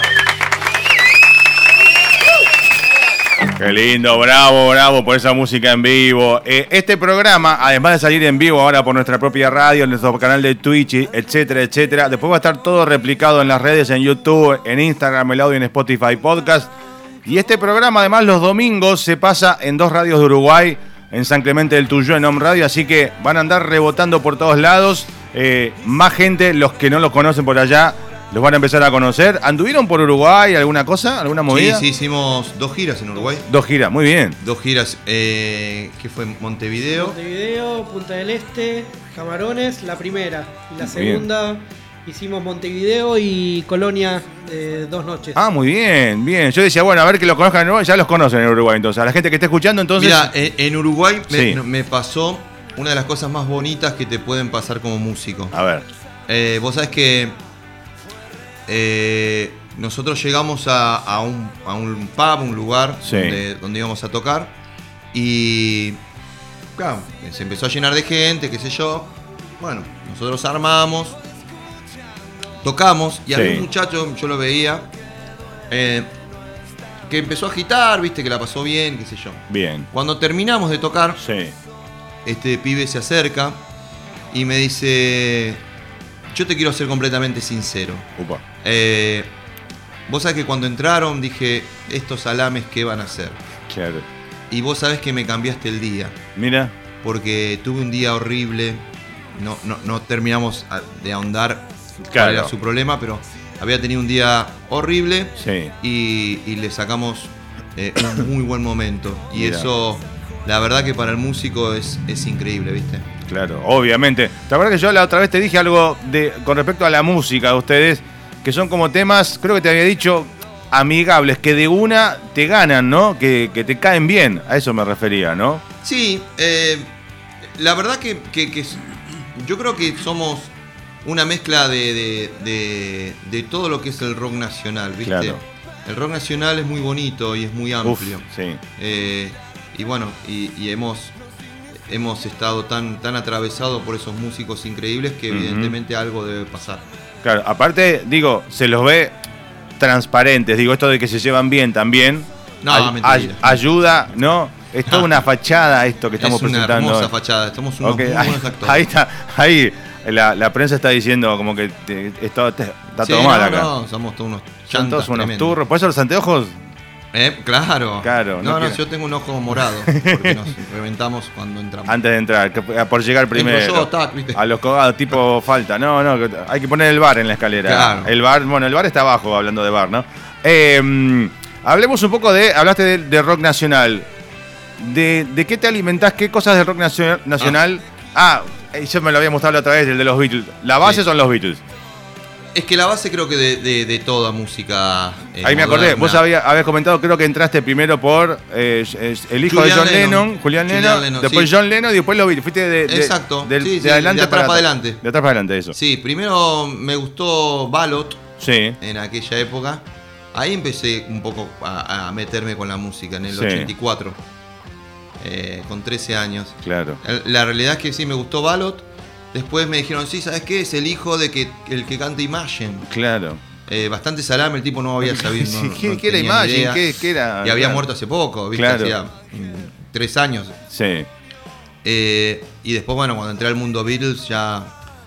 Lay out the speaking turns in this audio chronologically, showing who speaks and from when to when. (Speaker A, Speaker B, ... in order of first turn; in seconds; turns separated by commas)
Speaker A: 3.5-16.7, Speaker A: 17.2-31.8, Speaker B: 31.5-33.5, Speaker A: 33.5-34.4, Speaker B: 34.4-37.1, Speaker C: 36.9-45.4, Speaker A: 40.8-41.2, Speaker A: 45.4-50.3, Speaker B: 50.0-55.5, Speaker A: 51.3-51.6, Speaker A: 55.5-55.9, Speaker B: 56.3-57.4, Speaker B: 58.7-64.5, Speaker A: 63.0-63.4, Speaker B: 65.1-66.0, Speaker B: 66.8-71.2, Speaker B: 72.6-74.9, Speaker A: 73.3-73.7, Speaker B: 75.7-76.1, Speaker B: 77.1-81.2, Speaker A: 79.5-79.9, Speaker A: 81.2-81.5, Speaker B: 82.2-83.6, Speaker B: 84.3-85.6, Speaker B: 86.3-88.1, Speaker A: 88.2-88.4, Speaker B: 88.6-89.3, Speaker B: 90.1-93.4, Speaker A: 93.7-94.0, Speaker B: 94.5-96.2, Speaker A: 96.3-96.7, Speaker B: 97.0-113.1, Speaker A: 102.1-102.5, Speaker A: 105.4-105.7, Speaker A: 109.3-109.7, Speaker A: 113.3-125.6, Speaker B: 125.8-126.9, Speaker B: 127.6-128.8, Speaker B: 129.3-130.5, Speaker B: 131.0-138.2, Speaker A: 135.0-135.4, Speaker A: 137.8-138.6, Speaker B: 138.8-141.2, Speaker B: 141.8-146.8, Speaker A: 145.3-145.8, Speaker A: 147.2-149.2, Speaker A: 149.8-157.1, Speaker B: 152.6-153.6, Speaker B: 154.9-155.2, Speaker B: 156.2-158.8, Speaker A: 157.8-163.7, Speaker B: 163.0-165.6, Speaker A: 164.7-166.6, Speaker B: 167.1-172.0, Speaker A: 168.0-168.8, Speaker A: 169.6-170.5, Speaker A: 171.8-184.1, Speaker B: 173.3-174.4, Speaker B: 177.6-178.1, Speaker A: 184.8-191.6, Speaker B: 192.5-196.2, Speaker A: 195.4-205.8, Speaker B: 199.4-201.5, Speaker B: 202.9-205.0, Speaker B: 205.7-208.3, Speaker A: 208.4-208.8, Speaker B: 208.8-214.2, Speaker A: 213.3-213.7, Speaker B: 215.2-222.9, Speaker A: 216.6-217.0, Speaker A: 222.9-223.4, Speaker B: 223.7-226.8, Speaker A: 225.0-227.9, Speaker B: 227.4-230.6, Speaker A: 228.5-229.0, Speaker A: 230.7-231.1, Speaker B: 231.8-234.7